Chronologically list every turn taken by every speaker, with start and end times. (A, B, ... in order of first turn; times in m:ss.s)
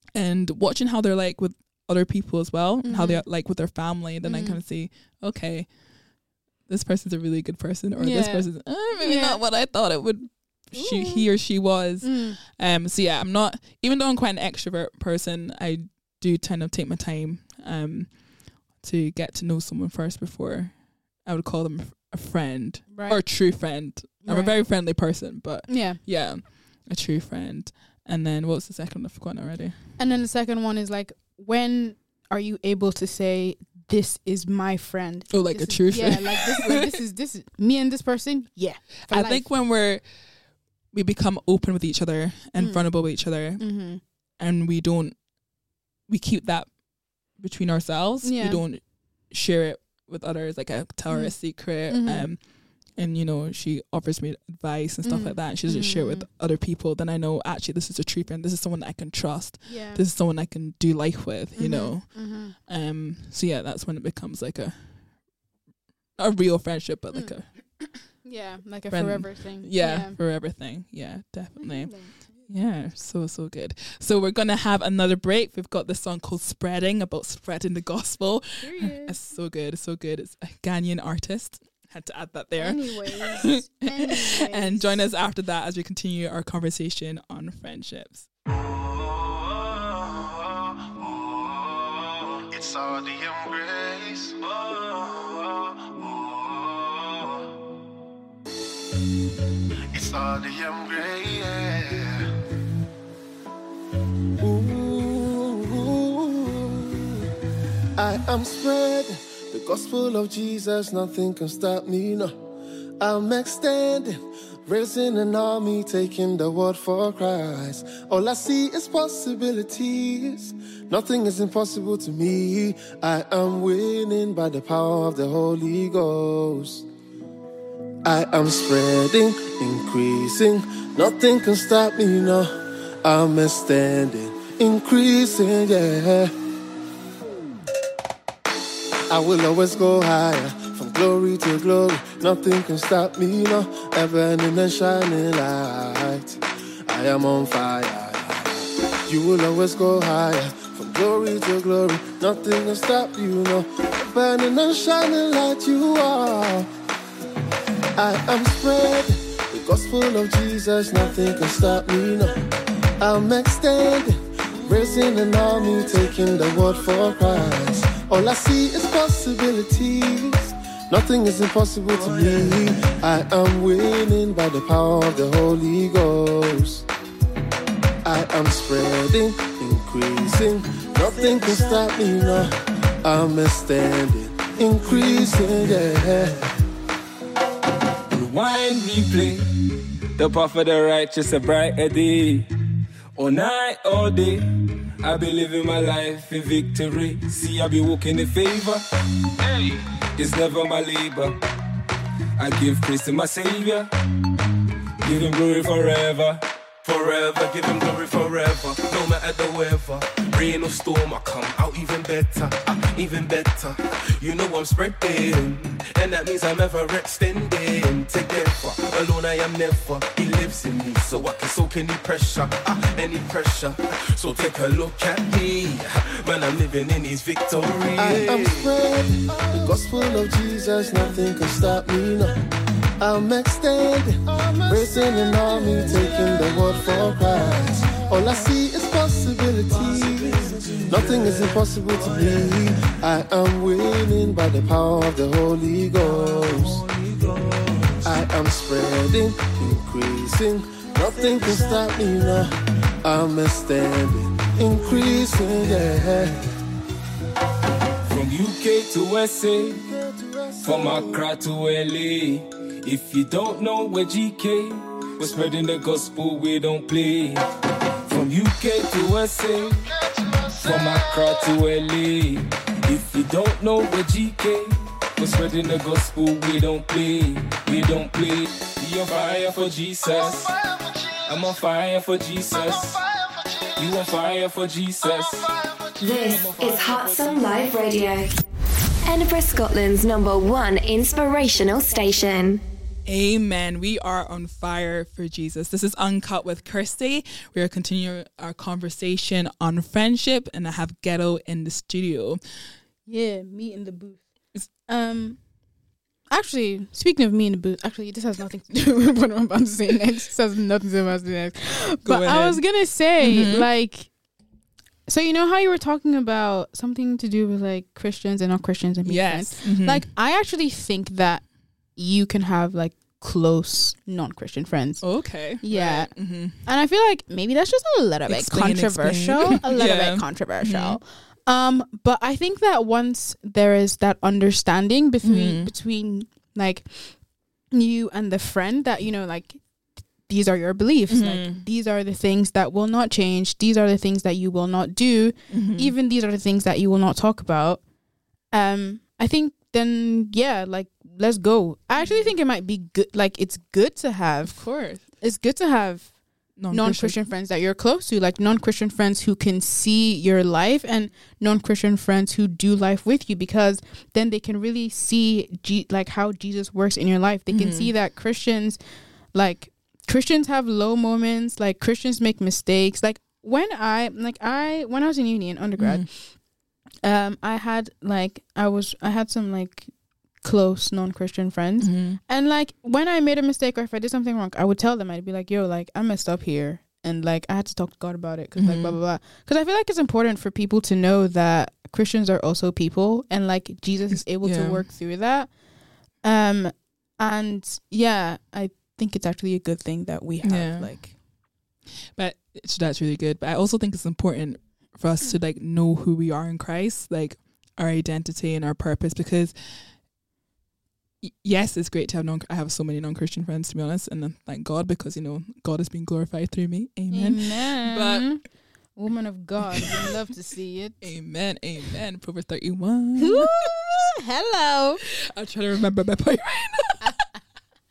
0:00.1-0:05.8 A
0:02.8-0:03.3 B
0:04.2-0:04.6 B
0:06.7-0:29.8 A
0:08.0-0:09.4 B
0:10.8-0:11.3 B
0:12.0-0:12.4 B
0:22.9-0:23.7 B
0:24.2-0:24.6 B
0:25.7-0:26.0 B
0:30.0-0:39.5 B
0:35.3-0:36.7 A
0:39.1-0:40.1 A
0:40.9-0:45.3 A
0:42.6-0:44.0 B
0:46.1-1:05.3 A
0:48.2-0:48.6 B
0:51.1-0:52.3 B
0:55.0-0:56.3 B
0:59.6-1:00.1 B
1:01.6-1:02.6 B
1:06.2-1:07.5 A
1:07.1-1:10.2 B
1:08.9-1:28.3 A
1:11.6-1:12.3 B
1:18.6-1:19.2 B
1:22.6-1:25.1 B
1:32.5-1:35.2 C
1:35.9-1:36.7 C
1:39.9-1:42.2 C
1:44.4-1:47.1 C
1:48.0-1:52.4 C
1:53.0-2:06.9 C
2:08.0-2:16.3 C
2:19.1-2:36.7 C
2:38.0-2:42.4 C
2:43.0-2:56.8 C
2:52.0-2:53.0 D
2:58.0-3:06.4 C
3:01.2-3:01.8 D
3:04.9-3:05.9 D
3:08.1-3:09.5 E
3:10.2-3:12.5 E
3:13.2-3:14.5 E
3:15.0-3:18.8 E
3:19.4-3:21.4 E
3:22.4-3:23.9 E
3:25.0-3:26.4 E
3:26.8-3:51.4 D
3:48.0-3:52.4 C
3:53.0-4:06.8 C
3:54.7-3:58.7 D
3:59.6-4:03.0 D
4:06.0-4:08.2 D
4:08.0-4:16.4 C
4:11.1-4:11.9 D
4:14.8-4:16.0 D
4:18.1-4:19.8 E
4:19.9-4:21.2 C
4:20.6-4:27.4 E
4:28.1-4:29.9 E
4:30.0-4:31.3 C
4:30.6-4:40.6 E
4:41.2-4:43.0 E
4:43.8-4:45.6 E
4:46.0-4:48.4 F
4:46.1-4:47.6 E
4:49.0-4:52.6 F
4:53.0-5:02.4 A
5:03.1-5:05.4 B
5:06.3-5:14.1 B
5:12.0-5:13.7 A
5:15.1-5:37.2 B
5:19.0-5:20.1 A
5:25.0-5:26.6 A
5:28.3-5:31.0 A
5:35.2-5:35.7 A
5:37.7-5:39.6 B
5:40.2-5:47.8 B
5:41.1-5:41.6 A
5:45.5-5:45.9 A
5:48.5-5:56.2 B
5:52.0-5:52.3 A
5:54.4-5:55.0 A
5:56.6-5:57.2 A
5:56.7-6:08.8 B
6:07.5-6:07.9 A
6:09.3-6:16.5 B
6:15.8-6:16.1 A
6:17.0-6:35.6 B
6:21.8-6:22.2 A
6:28.6-6:29.0 A
6:34.4-6:34.9 A
6:36.2-6:41.1 B
6:40.4-6:41.2 A
6:42.2-6:49.9 A
6:51.2-6:58.4 A
6:57.1-7:01.0 B
7:01.0-7:03.5 A
7:03.2-7:05.0 B
7:05.2-7:07.2 A